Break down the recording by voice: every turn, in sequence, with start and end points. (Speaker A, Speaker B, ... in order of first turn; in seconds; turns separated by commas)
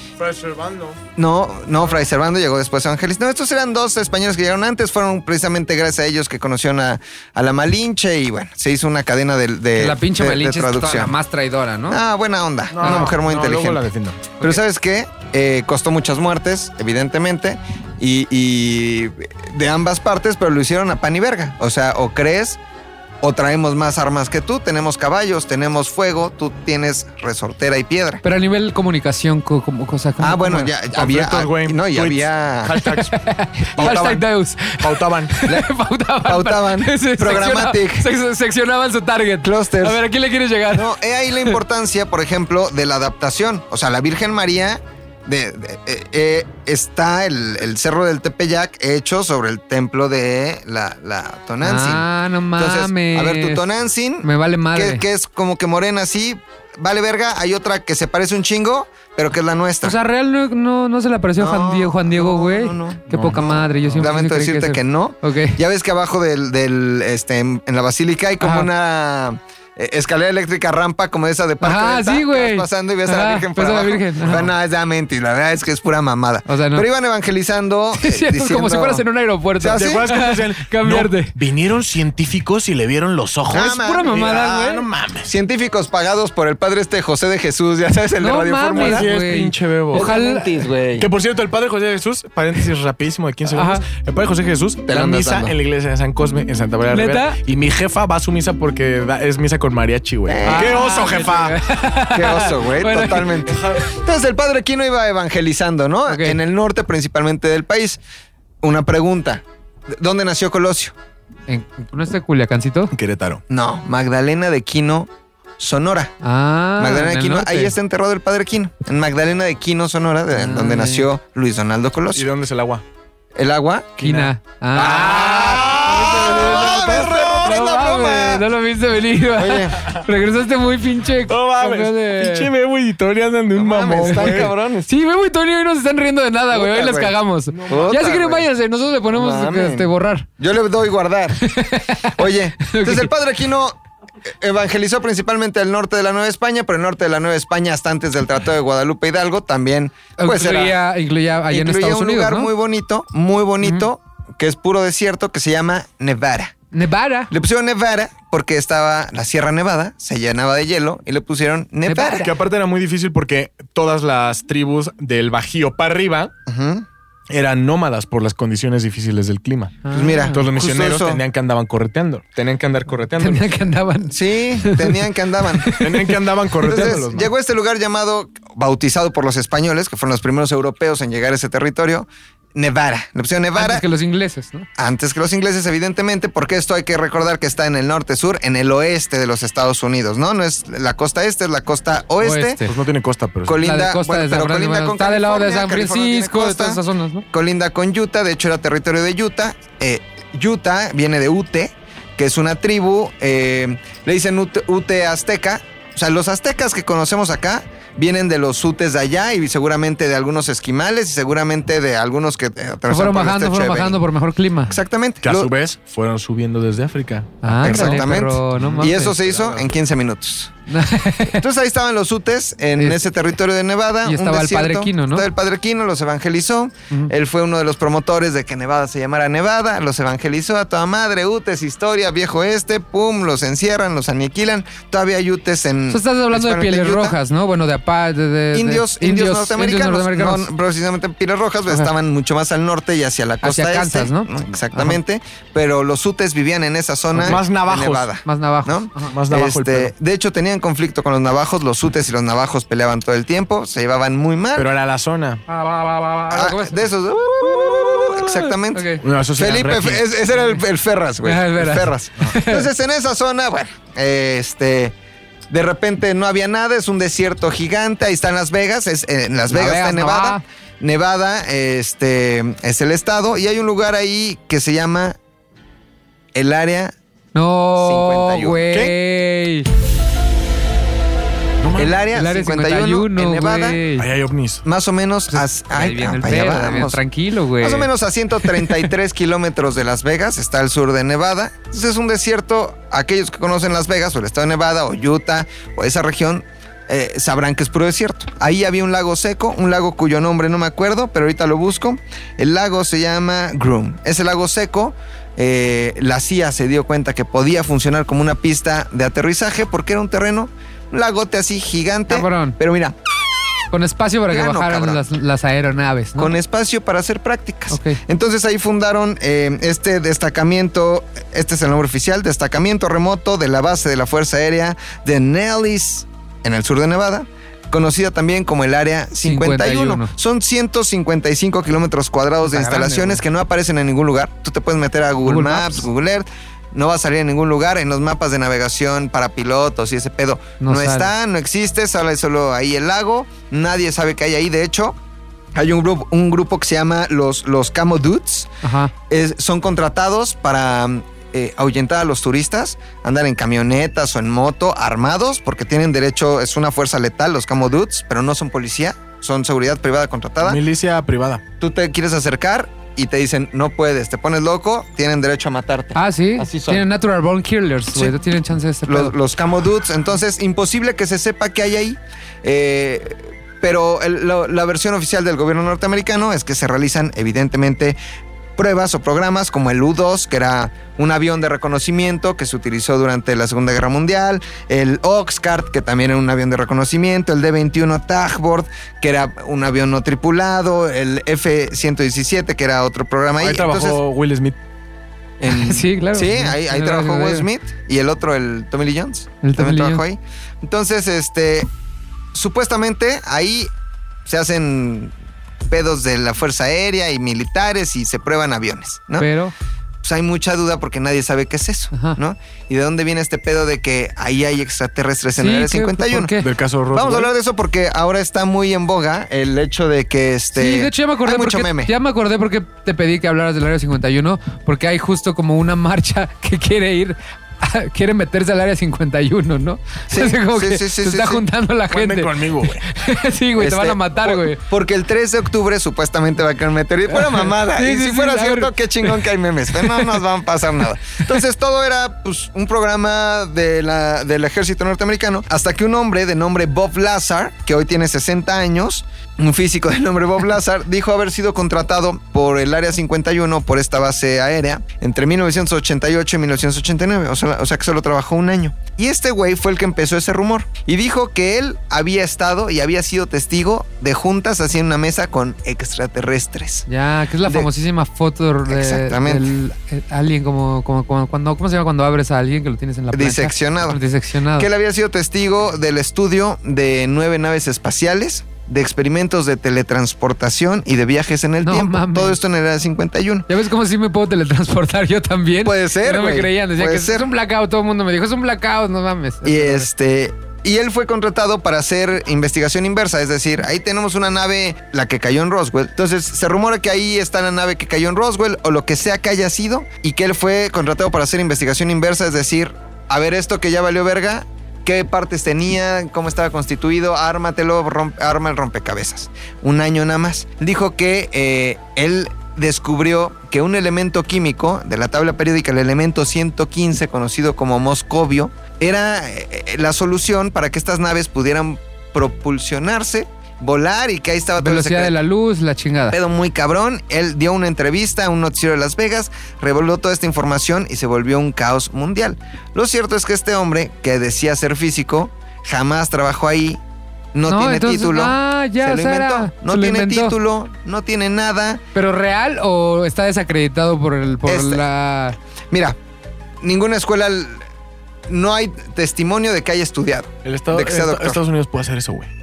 Speaker A: 0.2-1.0, Speaker B: 1.1-11.1, Speaker C: 9.8-12.0, Speaker B: 11.9-13.8, Speaker A: 12.7-14.3, Speaker C: 12.8-13.1, Speaker B: 14.4-22.6, Speaker B: 23.2-28.2, Speaker C: 28.2-30.7, Speaker B: 30.2-32.8, Speaker A: 30.9-33.1, Speaker C: 32.8-40.9, Speaker A: 33.8-34.0, Speaker B: 33.8-34.2, Speaker A: 34.8-35.3, Speaker B: 36.2-38.1, Speaker B: 39.4-40.0, Speaker B: 40.7-60.0, Speaker C: 51.6-53.6, Speaker C: 54.2-55.0, Speaker C: 59.8-65.6, Speaker B: 61.4-79.0, Speaker A: 63.1-64.1, Speaker C: 68.4-68.7, Speaker C: 71.6-74.5, Speaker C: 76.5-76.9, Speaker C: 78.0-81.3, Speaker B: 79.6-80.1, Speaker A: 79.7-85.3, Speaker B: 83.5-84.3, Speaker C: 83.6-84.8, Speaker B: 85.2-89.1, Speaker C: 88.2-90.6, Speaker A: 88.7-90.1, Speaker B: 89.9-91.1, Speaker A: 91.0-101.6, Speaker C: 93.5-93.8, Speaker B: 94.9-95.5, Speaker C: 96.9-97.4, Speaker B: 100.3-100.9, Speaker C: 100.4-103.5, Speaker B: 102.1-108.0, Speaker A: 103.5-103.8, Speaker C: 106.1-106.4, Speaker B: 108.6-110.9, Speaker C: 111.5-112.9, Speaker A: 112.9-113.4, Speaker B: 113.5-116.1, Speaker C: 116.2-117.7, Speaker B: 116.8-122.3, Speaker C: 120.3-121.1, Speaker A: 122.1-122.8, Speaker B: 123.3-124.0, Speaker A: 124.0-127.6, Speaker C: 124.0-132.5, Speaker B: 124.8-128.4, Speaker B: 129.3-129.8, Speaker A: 131.3-134.5, Speaker B: 133.6-134.9, Speaker C: 134.0-140.3, Speaker B: 136.5-138.5, Speaker A: 137.5-137.9, Speaker B: 139.1-141.4, Speaker C: 141.4-143.1, Speaker B: 142.1-143.8, Speaker B: 144.3-150.8, Speaker C: 150.2-152.5, Speaker B: 151.5-156.5, Speaker C: 156.7-157.3, Speaker B: 157.3-162.3, Speaker C: 161.9-162.3, Speaker A: 162.2-166.3, Speaker B: 166.5-166.8, Speaker A: 167.3-173.5, Speaker C: 169.8-170.4, Speaker B: 169.9-171.2, Speaker C: 173.2-175.0, Speaker B: 174.1-175.7, Speaker C: 175.6-177.0, Speaker A: 175.8-177.3, Speaker B: 176.6-183.8, Speaker C: 183.5-184.7, Speaker B: 184.8-192.6, Speaker C: 192.2-192.7, Speaker A: 192.6-193.6, Speaker B: 193.4-214.0, Speaker C: 193.6-197.2, Speaker C: 212.9-214.8, Speaker B: 214.7-215.5, Speaker A: 215.2-218.0, Speaker C: 217.4-219.2, Speaker B: 217.6-220.5, Speaker A: 218.6-219.7, Speaker C: 220.7-221.4, Speaker B: 221.2-237.2, Speaker C: 224.0-225.3, Speaker C: 235.9-240.5, Speaker B: 238.5-254.7, Speaker C: 243.4-245.0, Speaker A: 247.2-248.1, Speaker C: 248.2-249.1, Speaker A: 249.1-249.9, Speaker A: 254.5-255.4, Speaker C: 255.5-256.8, Speaker B: 256.3-264.9, Speaker C: 258.2-259.0, Speaker A: 259.0-260.1, Speaker C: 261.2-262.7, Speaker B: 265.5-275.2, Speaker C: 269.5-270.4, Speaker B: 276.3-276.9, Speaker C: 277.3-279.7, Speaker B: 277.8-278.6, Speaker A: 281.6-282.0, Speaker B: 281.7-283.8, Speaker C: 282.1-284.1, Speaker A: 284.0-284.6, Speaker B: 284.6-287.0, Speaker C: 285.3-287.9, Speaker B: 287.6-312.9, Speaker C: 288.6-288.8, Speaker C: 312.1-312.6, Speaker C: 313.7-316.3, Speaker B: 314.3-315.0, Speaker B: 316.1-345.0, Speaker C: 317.7-318.0, Speaker C: 329.2-330.1, Speaker C: 332.4-333.2, Speaker C: 335.2-335.9, Speaker C: 340.6-341.1, Speaker B: 345.5-348.5, Speaker C: 348.6-348.9, Speaker B: 349.1-360.6, Speaker A: 360.4-361.4, Speaker B: 361.6-366.9, Speaker C: 365.9-369.1, Speaker B: 368.9-378.0, Speaker B: 378.6-394.0, Speaker A: 393.4-394.6, Speaker B: 395.4-401.7, Speaker C: 395.4-397.5, Speaker C: 399.4-400.0, Speaker B: 402.3-403.7, Speaker B: 404.2-405.1, Speaker B: 405.7-409.3, Speaker C: 409.2-409.5, Speaker B: 410.0-416.3, Speaker C: 411.9-412.2, Speaker C: 415.4-416.5, Speaker A: 416.4-417.3, Speaker B: 416.9-421.9, Speaker C: 420.5-434.6, Speaker B: 430.1-431.4, Speaker A: 431.9-432.8, Speaker B: 433.6-466.9, Speaker C: 437.1-439.1, Speaker C: 439.8-440.1, Speaker C: 466.9-474.7, Speaker B: 468.7-469.5, Speaker B: 473.1-474.0, Speaker B: 474.6-483.5, Speaker C: 481.6-482.4, Speaker C: 483.5-489.9, Speaker B: 485.6-487.3, Speaker B: 489.4-525.1, Speaker C: 524.6-526.2, Speaker B: 526.1-536.8, Speaker B: 537.3-541.8, Speaker C: 537.5-540.3, Speaker C: 541.9-545.4, Speaker B: 544.4-544.8, Speaker B: 545.7-546.0, Speaker B: 546.6-547.6, Speaker B: 548.3-551.4, Speaker A: 550.4-552.3